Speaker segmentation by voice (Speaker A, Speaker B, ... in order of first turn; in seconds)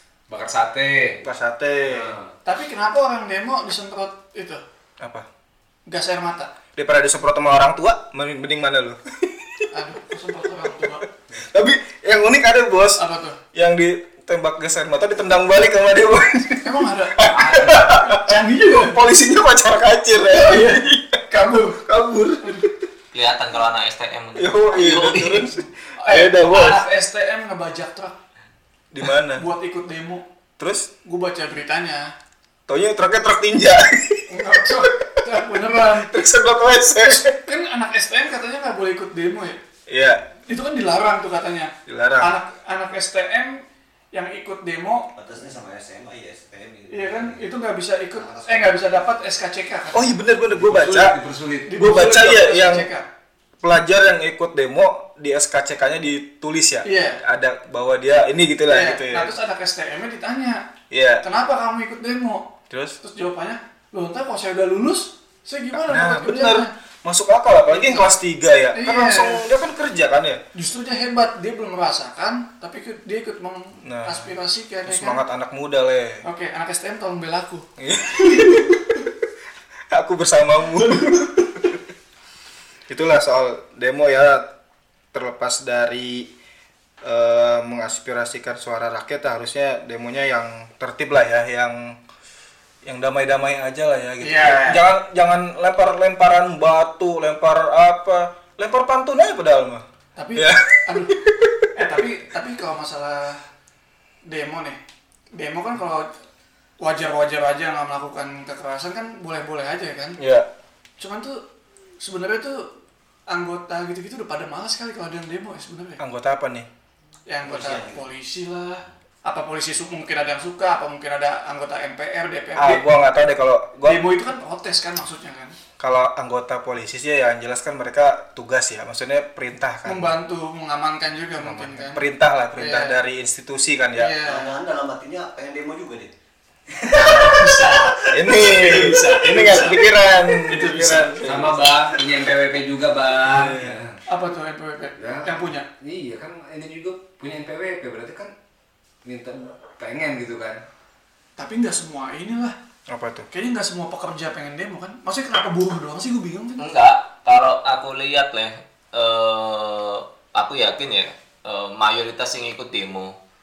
Speaker A: 0.3-1.2, 1.8-2.3, 17.3-18.0, 50.5-51.8, 136.9-137.6, 138.3-139.8, 140.3-144.0, 145.0-148.3, 149.0-150.6
Speaker B: 1.2-2.1, 5.0-5.3, 6.8-9.7, 10.6-13.0, 13.5-22.8, 24.4-26.8, 28.9-29.4, 30.6-30.9, 32.7-37.4, 39.9-40.2, 41.9-42.3, 49.9-51.2, 51.8-52.9, 53.6-59.3, 60.9-61.2, 62.7-63.0, 65.7-70.4, 73.8-74.3, 74.8-76.2, 77.8-79.1, 79.9-81.8, 82.9-84.5, 85.1-86.3, 87.0-92.0, 92.8-99.8, 100.3-102.0, 110.2-110.5, 116.0-116.7, 122.5-124.0, 125.8-130.1, 131.4-134.1, 138.1-141.7, 143.2-143.8, 152.9-153.3
Speaker C: 2.4-4.6, 5.9-6.5, 9.7-11.0, 13.0-13.4, 16.6-19.0, 20.3-21.8, 25.9-28.2, 29.3-30.2, 31.0-32.1, 34.3-36.2, 37.0-39.6, 40.5-45.1, 46.9-50.2, 51.7-53.1, 56.8-57.2, 58.7-60.6, 61.2-66.7, 67.7-68.1, 68.7-69.4, 70.5-75.2, 76.2-79.0, 80.7-81.6, 94.2-94.8, 100.2-101.2, 101.7-103.4, 104.2-104.8, 105.3-106.1, 106.8-110.2, 111.0-111.4, 112.0-112.7, 113.3-116.0, 117.3-122.9, 123.8-125.5, 129.8-132.0, 132.6-133.0, 133.9-134.5, 136.9-141.3, 144.1-145.7, 151.4-152.6, 153.3-156.6
Speaker D: 23.1-25.6, 156.6-163.1
Speaker E: 45.1-47.4, 48.1-49.1, 117.6-118.0, 134.2-136.1, 137.0-138.1